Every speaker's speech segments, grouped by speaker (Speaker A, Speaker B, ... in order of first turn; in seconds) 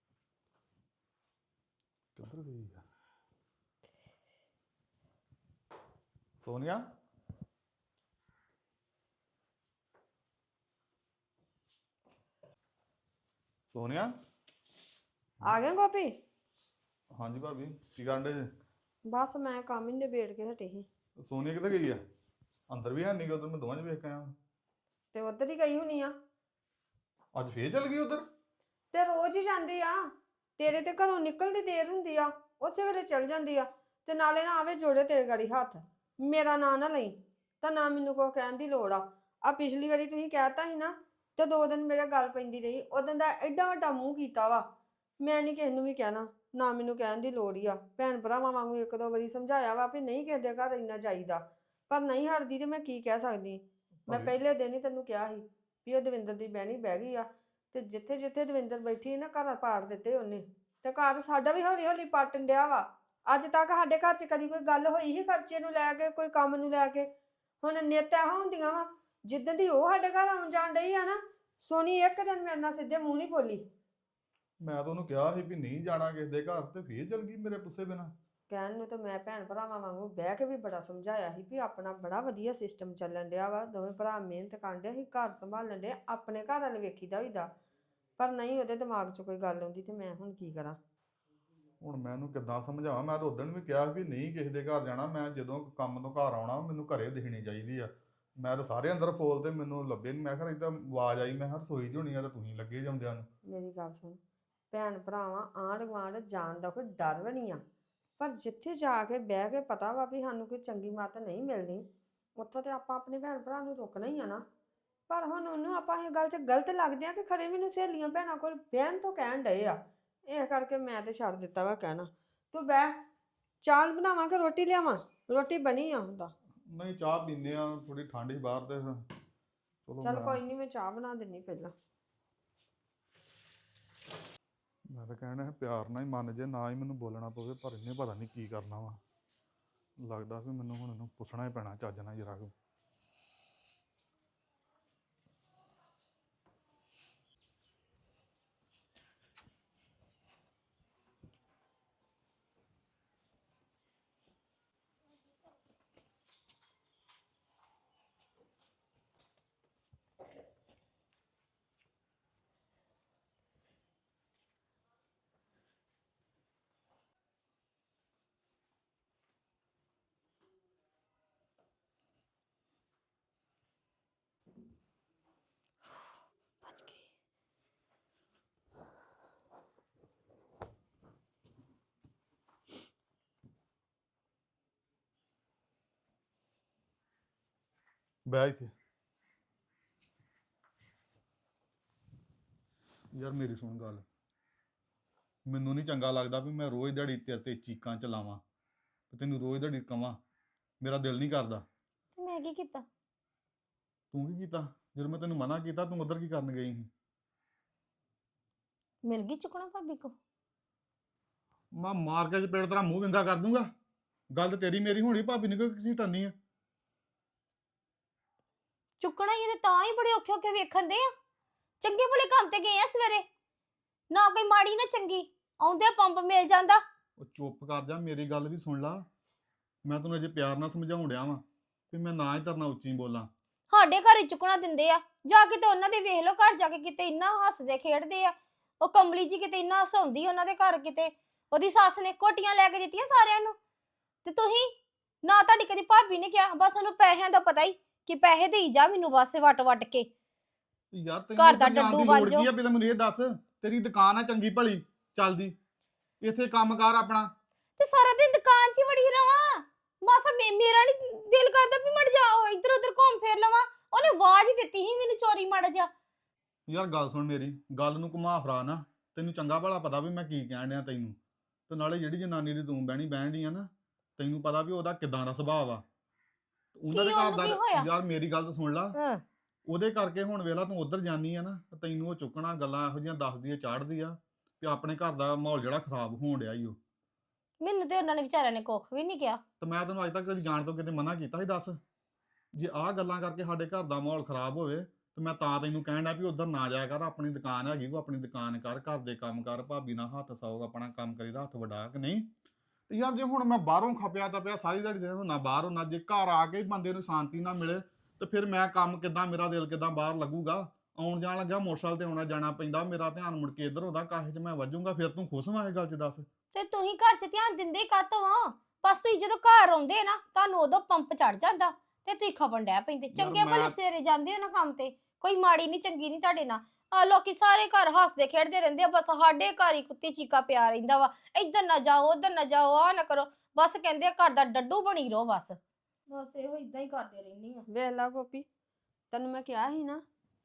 Speaker A: 2.1-2.8, 6.4-6.8, 13.7-14.1, 17.1-18.4, 21.2-22.0, 22.7-24.3, 27.3-28.2, 74.6-78.1, 91.8-103.3, 126.7-129.0, 129.8-130.4, 134.9-139.0, 140.0-142.5, 188.3-188.7, 193.1-194.0, 195.4-198.4, 199.1-200.2, 200.8-201.6, 204.1-206.9, 211.7-213.7, 214.3-216.3, 227.2-229.1, 229.8-233.3, 250.9-255.5, 256.2-257.3, 266.7-271.1, 271.7-275.8, 276.7-278.9, 279.7-286.8, 289.6-291.8, 292.5-302.2, 302.9-316.3, 323.1-323.7
Speaker B: 15.4-16.1, 19.1-20.9, 25.1-26.1, 28.9-30.0, 30.6-44.6, 45.2-67.1, 67.6-73.6, 78.5-87.5, 88.2-90.8, 103.5-104.2, 104.7-107.6, 108.2-111.8, 112.4-114.4, 115.1-119.8, 120.3-122.9, 123.6-126.3, 130.0-131.7, 337.7-338.4, 339.1-340.0
Speaker C: 176.7-177.0, 202.2-202.8, 209.0-210.1, 219.0-221.1, 221.8-223.2, 224.1-226.8, 233.7-243.6, 244.2-250.1, 251.4-252.5, 257.8-265.9, 276.9-277.9, 278.9-279.2, 287.6-289.4, 316.5-337.6